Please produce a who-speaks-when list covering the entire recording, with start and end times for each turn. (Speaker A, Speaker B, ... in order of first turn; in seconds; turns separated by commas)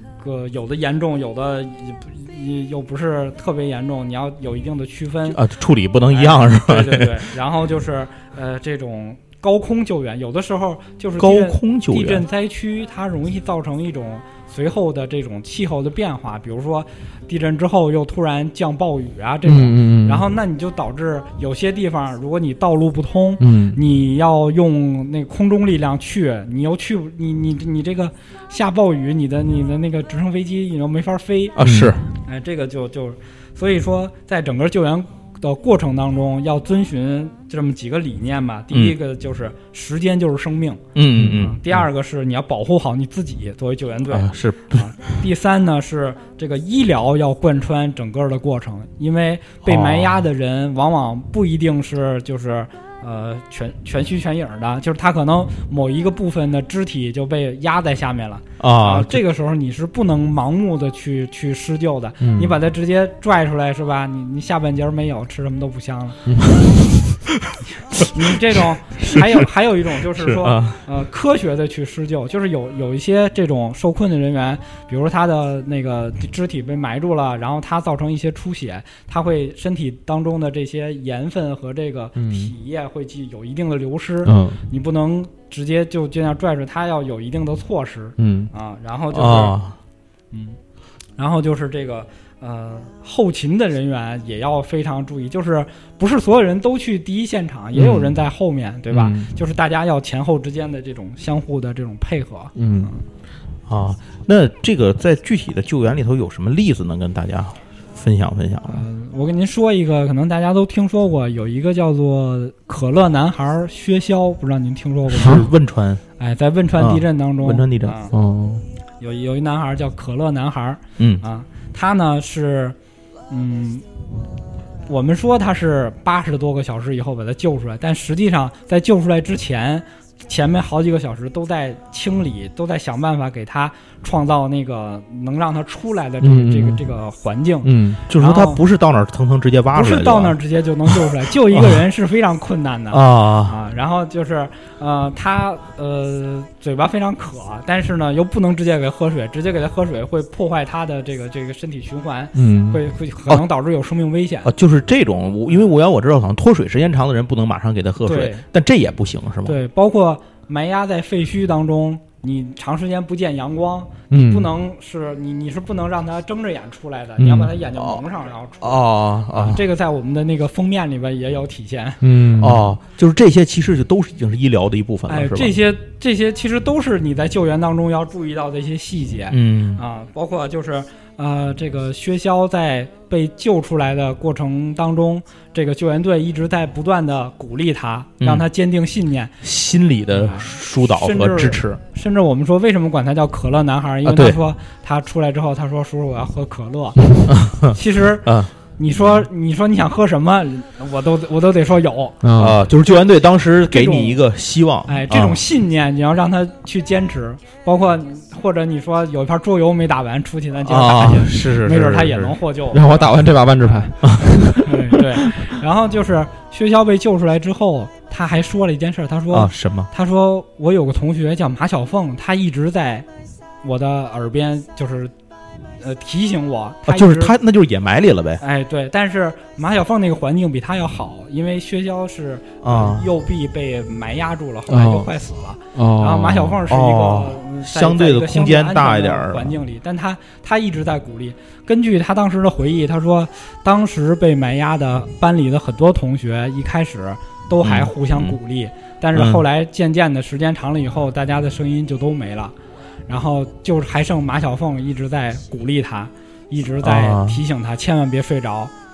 Speaker A: 0.2-5.4, Speaker B: 5.3-7.3, Speaker A: 6.1-31.6, Speaker B: 11.2-12.2, Speaker C: 19.4-20.2, Speaker C: 23.4-23.8, Speaker B: 31.6-32.0, Speaker C: 31.6-31.9, Speaker A: 32.2-40.8, Speaker B: 40.9-41.8, Speaker A: 41.4-66.2, Speaker B: 44.1-44.9, Speaker B: 49.6-50.2, Speaker B: 58.6-59.2, Speaker C: 62.2-62.6, Speaker A: 67.9-89.6, Speaker B: 69.0-69.5, Speaker B: 70.1-70.8, Speaker C: 82.2-82.5, Speaker C: 84.2-84.6, Speaker C: 88.2-88.5, Speaker B: 89.1-89.8, Speaker A: 90.3-90.6, Speaker A: 91.2-103.0, Speaker C: 97.8-98.0, Speaker C: 98.9-99.3, Speaker C: 102.5-102.9, Speaker B: 103.7-108.8, Speaker A: 108.7-115.4, Speaker B: 115.1-116.0, Speaker A: 116.2-118.1, Speaker B: 116.8-118.0, Speaker C: 118.1-118.6, Speaker A: 119.0-122.8, Speaker B: 121.0-121.2, Speaker A: 123.3-123.8, Speaker A: 124.9-138.6, Speaker C: 136.2-136.8, Speaker C: 137.6-138.0, Speaker B: 138.1-140.4, Speaker A: 139.7-154.5, Speaker B: 140.9-141.8, Speaker B: 142.9-143.6, Speaker C: 152.3-152.8, Speaker B: 154.4-159.6, Speaker A: 158.0-158.4, Speaker A: 159.4-172.0, Speaker C: 164.1-164.5, Speaker C: 167.2-167.5, Speaker B: 167.8-168.0, Speaker B: 168.6-169.6, Speaker C: 172.0-172.6, Speaker B: 172.4-175.6, Speaker A: 175.1-189.3, Speaker B: 179.3-179.8, Speaker B: 188.2-188.5, Speaker B: 189.4-191.8, Speaker A: 190.1-197.0, Speaker B: 194.0-194.4, Speaker B: 197.3-198.5, Speaker A: 197.6-202.2, Speaker C: 202.2-202.6, Speaker B: 202.3-205.4, Speaker A: 202.8-204.2, Speaker A: 204.9-213.1, Speaker B: 210.6-212.4, Speaker C: 212.7-215.3, Speaker A: 214.6-223.1, Speaker B: 219.3-219.9, Speaker A: 223.6-225.1, Speaker A: 225.8-227.3, Speaker B: 226.8-228.4, Speaker A: 228.4-252.5, Speaker B: 232.6-233.1, Speaker C: 234.7-235.1, Speaker C: 235.7-236.6, Speaker B: 236.7-239.6, Speaker B: 247.6-248.4, Speaker B: 249.1-249.4, Speaker A: 253.1-258.7, Speaker B: 256.8-257.4